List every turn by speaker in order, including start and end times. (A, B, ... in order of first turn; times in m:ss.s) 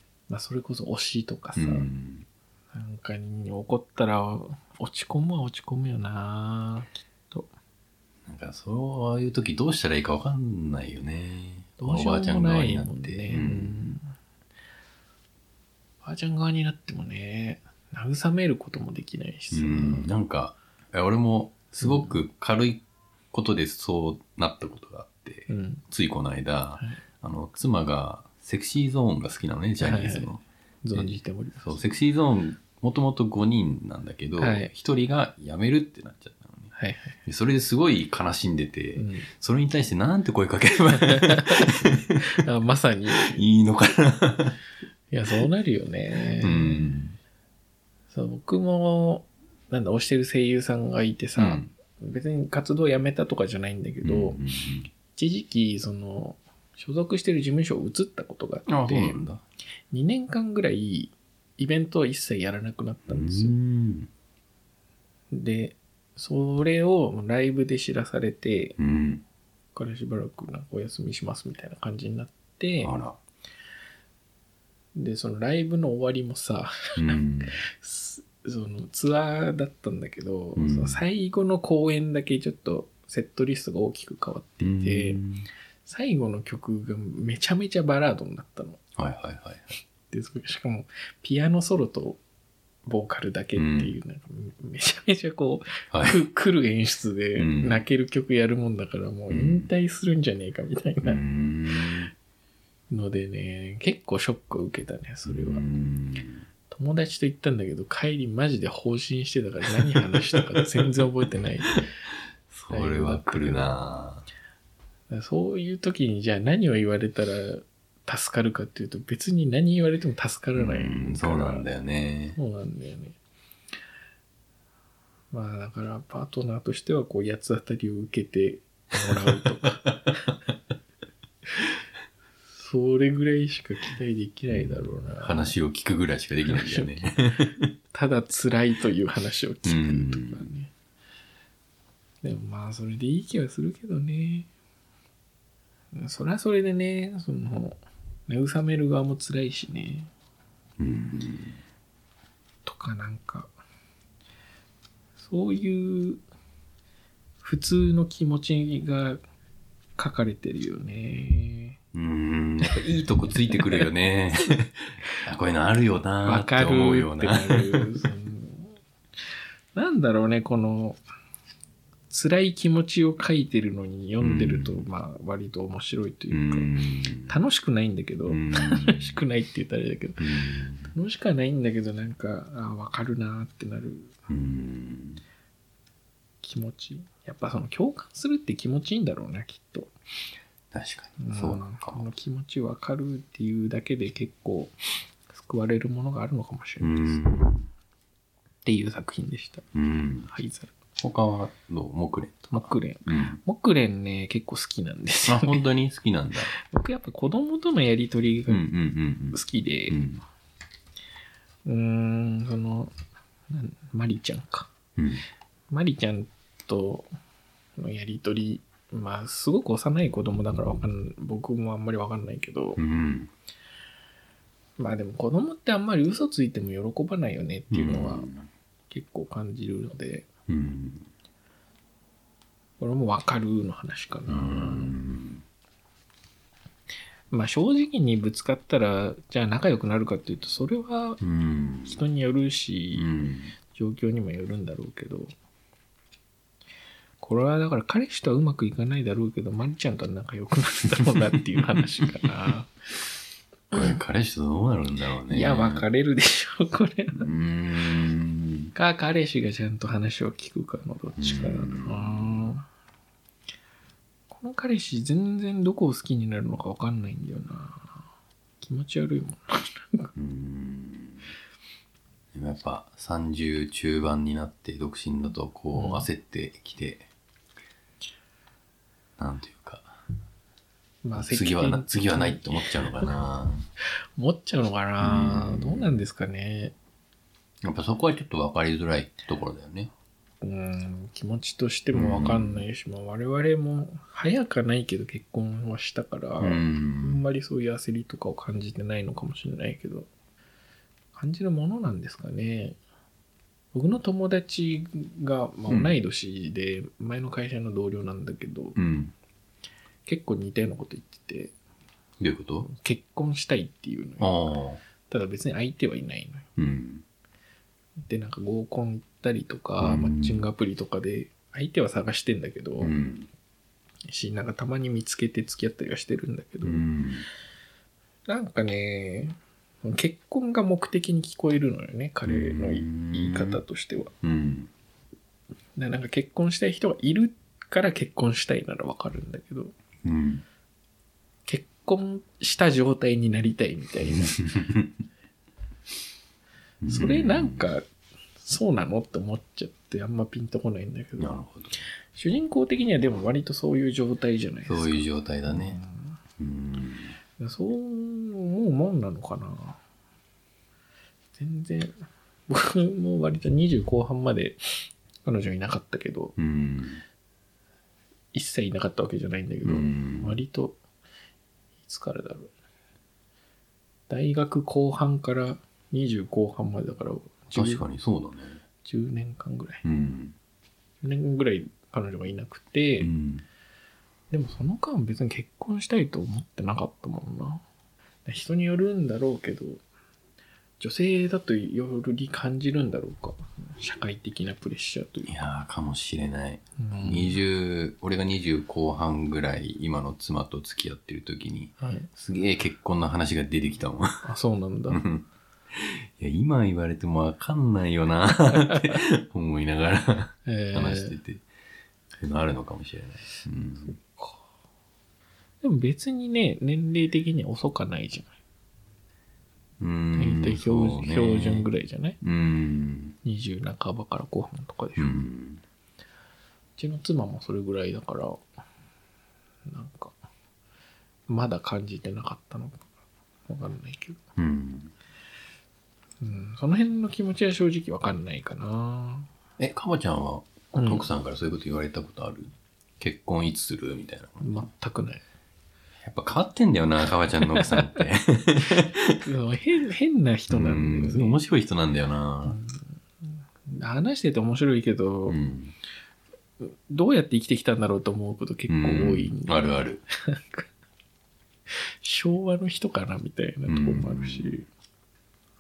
0:00.3-0:01.9 A
0:01.6-0:02.3 B
0:02.7-0:07.5 A
0:08.2-0:13.9 B
0:11.8-0:14.1 A
0:16.0-0:20.1 A
0:19.5-0:30.4 B
0:21.8-0:22.2 A
0:25.5-0:25.8 A
0:29.8-0:30.3 A
0:30.8-0:31.7 A
0:30.9-0:36.7 B
0:34.4-0:34.7 A
0:36.7-0:37.2 A
0:37.2-0:42.4 B
0:39.0-0:39.3 A
0:40.9-0:43.4 A
0:43.1-0:44.6 B
0:45.1-0:46.9 A
0:46.4-0:47.2 B
0:48.1-0:54.4 A
0:51.4-0:51.7 B
0:54.0-0:54.9 B
0:55.1-0:59.2 A
0:58.7-0:59.4 B
0:59.9-1:03.5 A
1:03.1-1:04.1 B
1:05.3-1:08.8 A
1:08.8-1:09.2 B
1:09.8-1:12.9 A
1:12.8-1:13.2 B
1:14.9-1:25.2 A
1:17.0-1:17.6 B
1:20.6-1:21.0 B
1:24.6-1:25.5 B
1:25.8-1:28.8 A
1:29.0-1:29.7 B
1:30.1-1:32.2 A
1:32.8-1:41.2 A
1:33.6-1:34.0 B
1:35.9-1:36.2 B
1:37.4-1:37.8 B
1:39.3-1:39.7 B
1:41.0-1:42.1 B
1:42.9-1:45.6 A
1:45.2-1:46.4 B
1:46.7-1:51.9 A
1:52.5-1:54.2 B
1:52.7-1:53.8 A
1:55.1-2:01.6 A
2:00.6-2:02.4 B
2:02.3-2:03.2 A
2:05.3-2:10.3 A
2:12.5-2:15.5 A
2:14.5-2:17.7 B
2:16.5-2:20.7 A
2:19.6-2:20.5 B
2:22.2-2:24.5 A
2:25.9-2:30.1 A
2:30.8-2:31.6 B
2:32.6-2:33.5 A
2:35.2-2:36.2 A
2:37.4-2:39.2 A
2:40.0-2:41.8 A
2:41.9-2:48.0 B
2:43.5-2:43.9 A
2:46.2-2:48.8 A
2:49.7-2:51.0 A
2:52.1-2:56.7 A
2:54.2-2:54.8 B
2:56.3-2:57.4 B
2:57.3-3:04.1 A
2:58.3-2:59.2 B
3:00.2-3:00.9 B
3:04.3-3:05.2 B
3:06.4-3:09.9 A
3:10.7-3:12.0 B
3:11.2-3:14.7 A
3:15.3-3:17.4 A
3:16.8-3:17.7 B
3:18.6-3:19.6 A
3:19.7-3:20.3 B
3:20.3-3:20.7 A
3:21.0-3:22.5 B
3:22.5-3:25.6 A
3:23.0-3:23.4 B
3:25.3-3:26.5 B
3:26.5-3:28.7 A
3:28.5-3:30.2 B
3:29.3-3:30.0 A
3:31.6-3:32.9 A
3:33.5-3:34.7 A
3:35.0-3:35.2 B
3:35.7-3:37.1 A
3:37.8-3:42.8 A
3:42.8-3:43.3 B
3:44.8-3:48.3 A
3:47.7-3:48.5 B
3:48.9-3:50.3 A
3:50.5-3:51.1 B
3:52.8-3:55.0 A
3:54.3-3:55.4 B
3:57.3-4:01.2 A
4:01.2-4:02.0 B
4:01.8-4:03.1 A
4:02.9-4:03.5 B
4:03.7-4:05.3 A
4:07.2-4:12.7 A
4:11.0-4:12.2 B
4:13.7-4:15.8 B
4:15.3-4:17.3 A
4:17.2-4:18.7 B
4:18.7-4:22.7 A
4:21.2-4:22.5 B
4:24.3-4:28.0 A
4:28.6-4:30.1 A
4:30.2-4:31.3 B
4:32.3-4:37.1 B
4:35.7-4:36.1 A
4:39.2-4:39.9 B
4:41.0-4:43.1 A
4:41.2-4:43.6 B
4:44.2-4:46.7 A
4:45.0-4:45.9 B
4:47.6-4:49.9 B
4:50.4-5:00.1 A
4:51.9-4:52.6 B
4:56.4-4:57.2 B
5:01.1-5:02.8 A
5:03.7-5:08.8 A
5:05.7-5:05.9 B
5:08.8-5:09.1 B
5:10.0-5:11.5 A
5:12.2-5:12.7 B
5:12.6-5:14.5 A
5:14.2-5:14.8 B
5:15.0-5:16.4 A
5:16.6-5:17.0 B
5:18.0-5:22.9 A
5:19.8-5:20.4 B
5:22.8-5:23.3 B
5:24.1-5:26.8 A
5:26.6-5:27.3 B
5:28.3-5:34.1 A
5:32.2-5:33.6 B
5:34.2-5:34.7 B
5:35.8-5:39.7 A
5:40.0-5:40.4 B
5:41.5-5:44.5 A
5:44.1-5:44.9 B
5:46.8-5:47.7 B
5:46.9-5:47.8 A
5:48.4-5:51.3 A
5:51.2-5:51.8 B
5:52.1-5:56.2 A
5:54.6-5:55.8 B
5:56.4-5:57.2 B
5:57.4-5:59.8 A
6:01.4-6:01.9 A
6:02.5-6:06.3 A
6:06.4-6:07.0 B
6:08.3-6:10.8 A
6:09.6-6:10.4 B
6:11.8-6:12.5 A
6:14.1-6:17.8 A
6:17.5-6:18.6 B
6:18.8-6:19.8 A
6:19.8-6:20.3 B
6:21.0-6:23.1 A
6:23.0-6:23.4 B
6:24.3-6:27.6 A
6:28.2-6:29.8 A
6:30.8-6:35.4 A
6:35.3-6:44.3 B
6:36.8-6:37.4 A
6:41.8-6:42.1 A
6:44.2-6:45.0 A
6:44.9-6:51.4 B
6:48.7-6:48.9 A
6:50.4-6:51.2 A
6:52.2-6:54.0 B
6:53.8-6:54.4 A
6:55.6-6:58.3 A
6:59.8-7:01.7 B
7:00.2-7:02.2 A
7:02.2-7:03.2 B
7:03.2-7:05.3 A
7:05.0-7:05.6 B
7:06.8-7:08.4 A
7:09.6-7:10.1 A
7:11.3-7:12.9 A
7:13.5-7:14.2 A
7:14.4-7:14.9 B
7:16.2-7:19.3 A
7:19.6-7:24.7 B
7:20.7-7:21.0 A
7:24.4-7:25.2 A
7:26.0-7:29.2 B
7:29.2-7:31.4 A
7:30.5-7:32.6 B
7:32.4-7:35.4 A
7:35.3-7:35.7 B
7:36.6-7:40.7 A
7:38.7-7:40.0 B
7:41.7-7:44.6 A
7:43.6-7:44.5 B